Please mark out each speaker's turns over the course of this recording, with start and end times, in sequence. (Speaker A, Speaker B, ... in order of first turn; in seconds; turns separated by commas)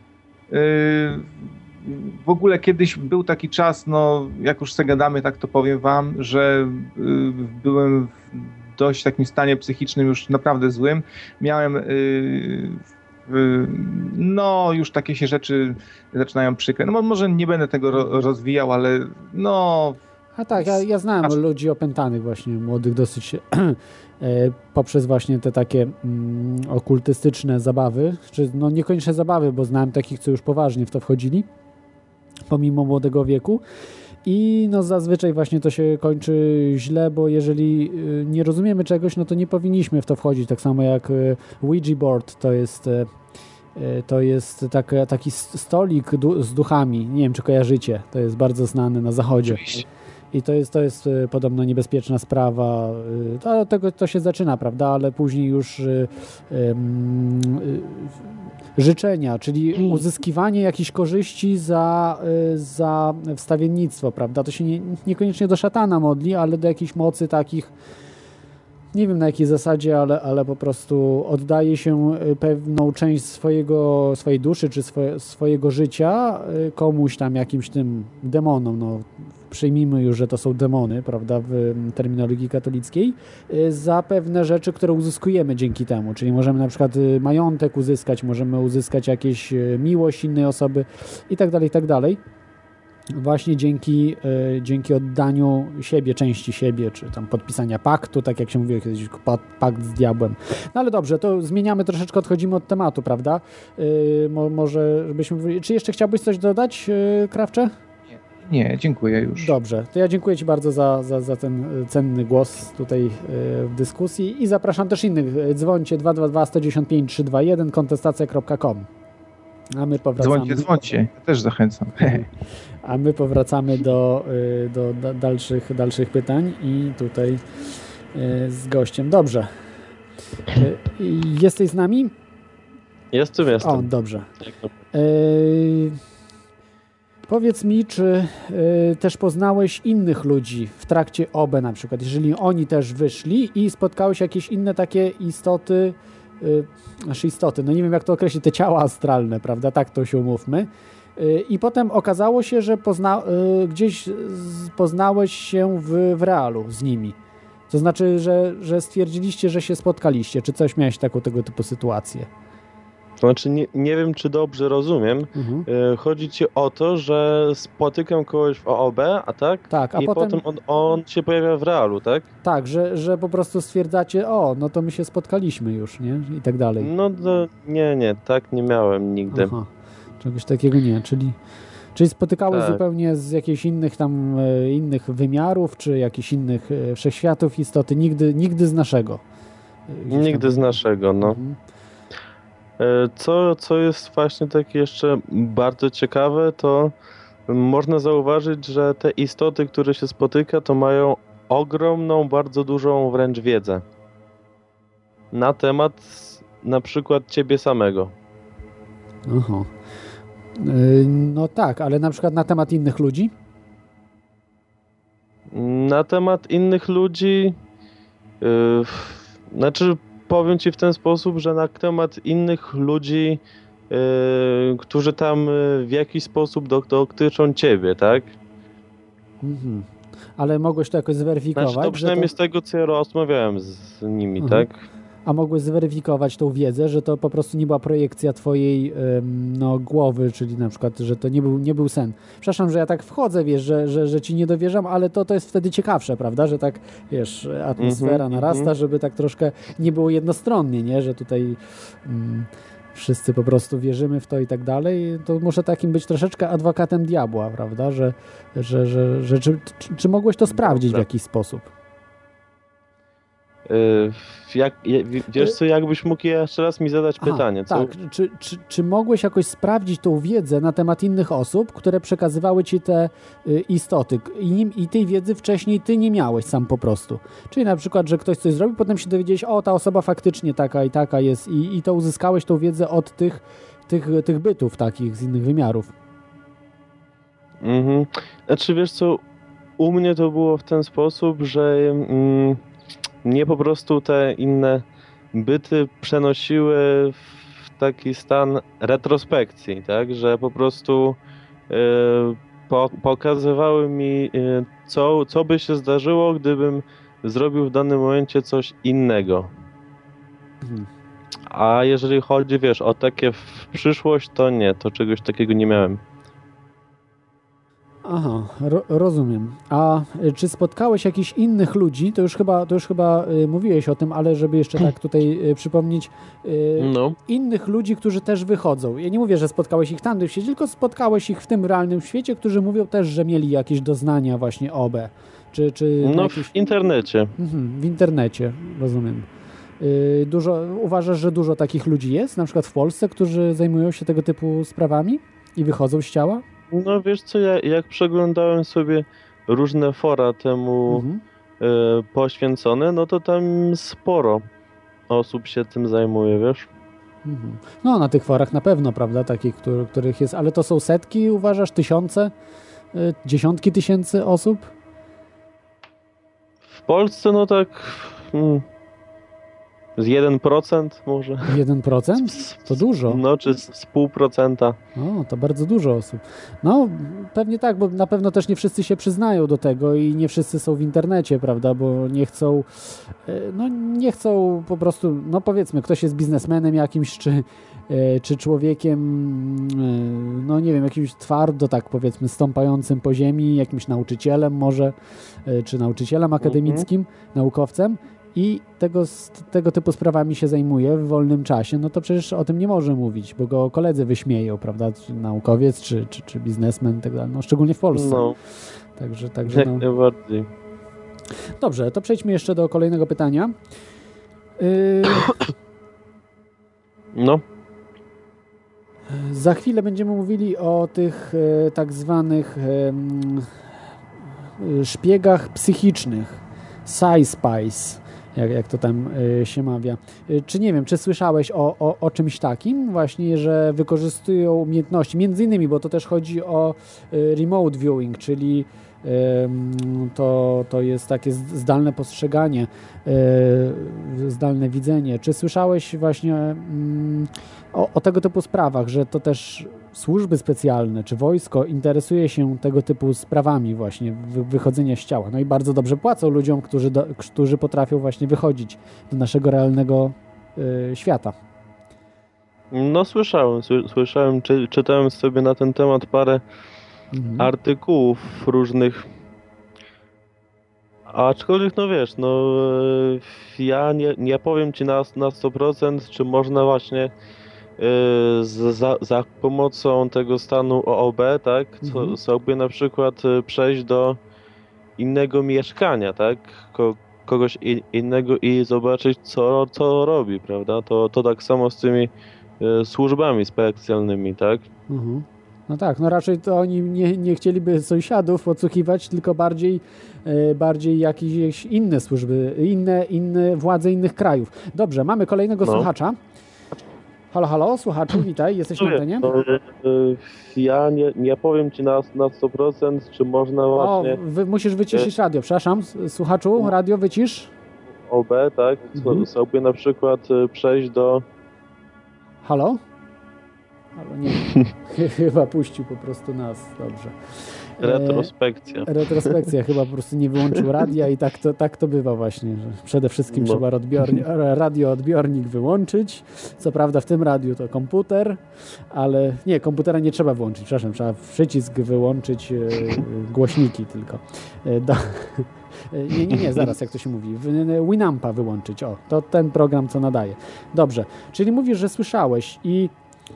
Speaker A: 0.5-20.0, Speaker B: 20.4-31.5, Speaker A: 20.6-21.3, Speaker B: 32.5-33.6, Speaker B: 34.2-43.1, Speaker B: 43.8-58.1, Speaker B: 58.8-67.7, Speaker B: 68.9-92.2, Speaker B: 93.1-107.7, Speaker A: 108.1-109.5, Speaker B: 109.4-118.9, Speaker B: 119.8-120.9, Speaker A: 120.2-122.2, Speaker B: 122.0-122.3, Speaker B: 122.8-127.4, Speaker B: 128.1-129.5, Speaker B: 130.5-132.1, Speaker C: 133.1-133.9, Speaker B: 133.6-134.3, Speaker C: 134.4-134.7, Speaker B: 134.9-136.0, Speaker B: 137.3-157.2, Speaker B: 157.7-162.3, Speaker C: 163.2-172.3, Speaker B: 165.3-165.7, Speaker B: 169.7-170.4, Speaker B: 172.4-176.9, Speaker C: 176.8-179.5, Speaker B: 179.3-179.7, Speaker B: 180.2-181.4, Speaker B: 181.9-189.2, Speaker C: 182.5-182.8, Speaker B: 189.9-191.6, Speaker C: 190.1-191.4, Speaker C: 192.8-196.9, Speaker C: 197.5-203.8, Speaker C: 205.3-208.1, Speaker B: 209.3-209.7, Speaker B: 210.6-213.3, Speaker C: 215.5-217.6, Speaker C: 218.4-228.3, Speaker B: 229.4-232.3, Speaker C: 231.5-234.8, Speaker B: 234.4-234.7, Speaker B: 235.2-261.7, Speaker C: 247.8-248.7, Speaker C: 260.5-261.0, Speaker C: 263.7-267.9, Speaker B: 267.2-285.9, Speaker C: 287.6-289.2, Speaker C: 289.8-292.6, Speaker C: 293.2-301.2, Speaker C: 301.7-309.5, Speaker B: 310.6-310.9, Speaker C: 311.5-316.0, Speaker B: 318.0-336.5, Speaker C: 326.8-327.2, Speaker C: 336.0-337.3, Speaker B: 337.4-339.3, Speaker B: 339.8-346.4, Speaker C: 346.7-351.0, Speaker B: 350.9-351.2, Speaker C: 351.6-354.4, Speaker C: 355.1-356.7, Speaker B: 357.2-362.3, Speaker B: 362.9-364.7, Speaker C: 366.7-368.6, Speaker C: 370.0-371.6, Speaker B: 371.5-373.2, Speaker C: 372.2-374.8, Speaker B: 375.0-394.9, Speaker B: 395.4-408.2, Speaker C: 396.4-396.9, Speaker C: 407.9-408.4, Speaker B: 409.0-409.9, Speaker C: 409.5-410.5, Speaker B: 411.6-413.5, Speaker B: 414.6-415.3, Speaker C: 417.1-417.4, Speaker B: 419.1-423.5, Speaker B: 424.6-461.3, Speaker C: 462.7-466.4, Speaker B: 467.1-467.5, Speaker C: 467.4-469.1, Speaker C: 471.1-477.1, Speaker C: 477.8-484.2, Speaker B: 481.8-482.1, Speaker C: 485.0-494.7, Speaker B: 494.9-506.2, Speaker C: 505.6-505.9, Speaker B: 507.3-509.3, Speaker C: 508.8-514.2, Speaker B: 513.8-517.5, Speaker C: 518.0-521.2, Speaker B: 519.0-519.2, Speaker B: 522.4-522.8, Speaker B: 524.0-527.1, Speaker B: 527.8-528.3, Speaker C: 527.8-529.5, Speaker B: 528.9-538.4, Speaker C: 533.3-533.6, Speaker B: 538.9-552.9